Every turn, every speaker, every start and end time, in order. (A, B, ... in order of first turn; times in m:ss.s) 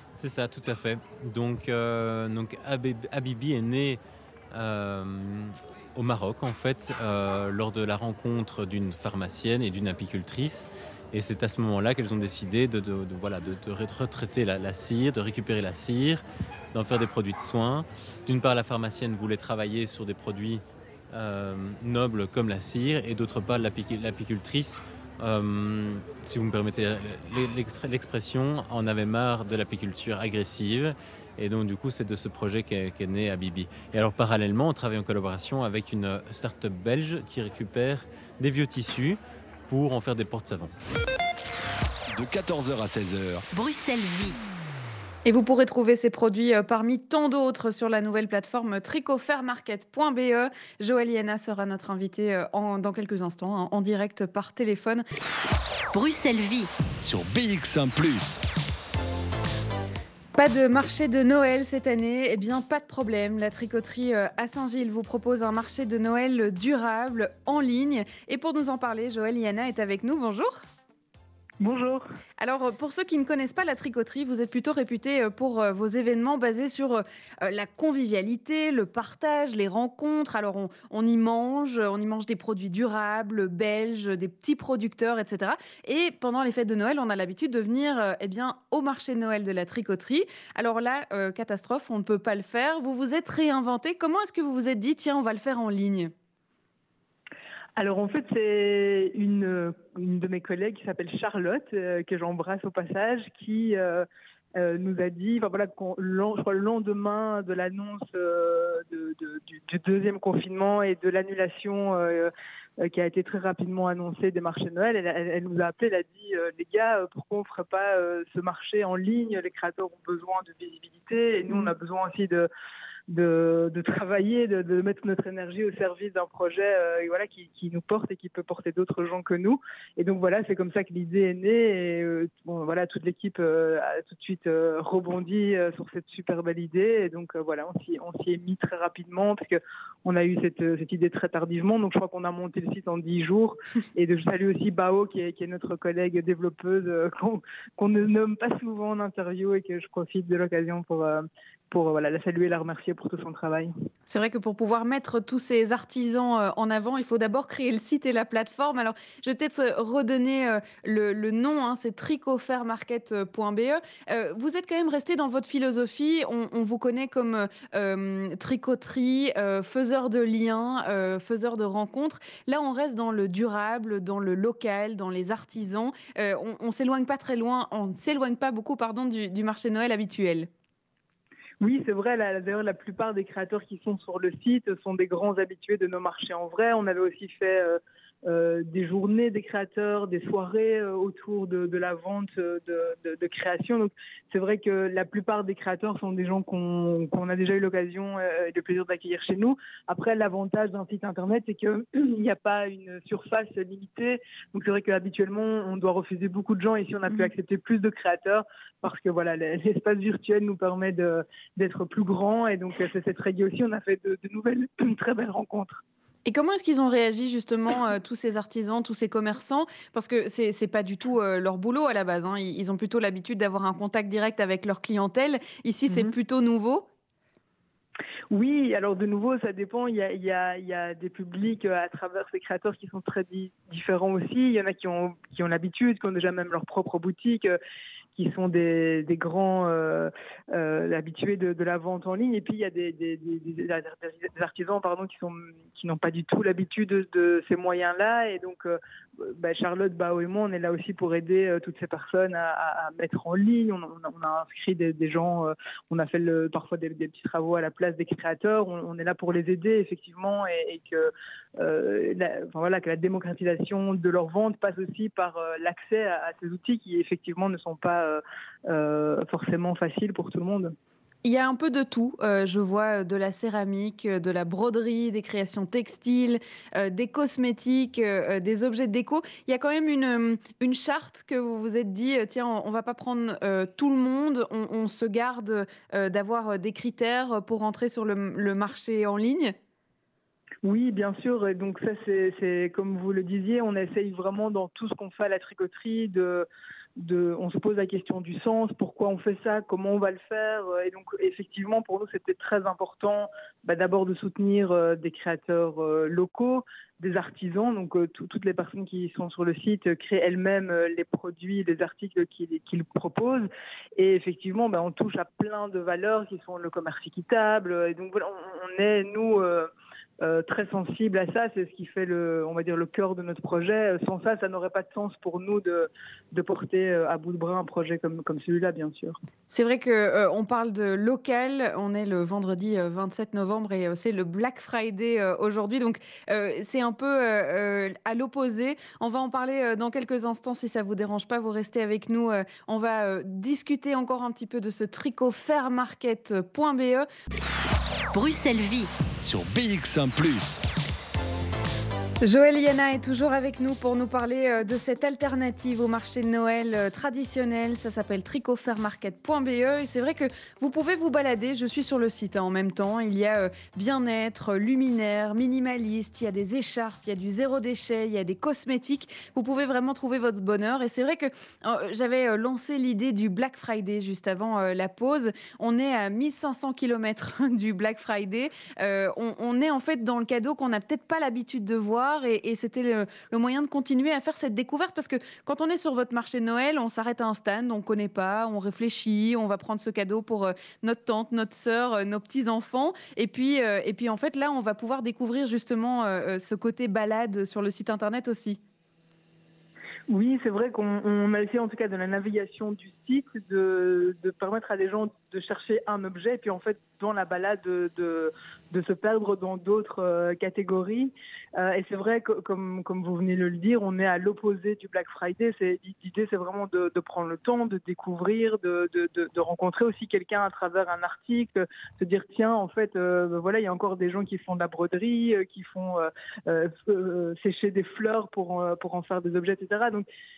0:00.2-0:04.0 A
0:04.5-0:40.7 A
0:42.1-0:43.5 B
0:43.5-0:44.4 C
0:45.2-0:55.0 D
0:55.9-0:56.9 C
0:57.0-0:58.4 B
1:00.4-1:10.6 D
1:11.6-1:12.0 E
1:12.4-1:36.1 D
1:37.8-1:52.3 E
1:52.8-2:02.5 E
2:03.1-2:33.7 E
2:34.1-3:00.5 D
3:01.6-3:35.8 E
3:36.3-3:46.9 D
3:48.3-3:57.6 E
3:58.2-4:30.8 E
4:31.2-4:49.6 D
4:50.6-4:56.5 E
4:57.0-5:29.2 E
5:29.5-5:47.1 D
5:48.1-5:49.0 C
5:49.2-5:50.6 B
5:52.2-6:38.6 D
6:40.1-7:10.1 E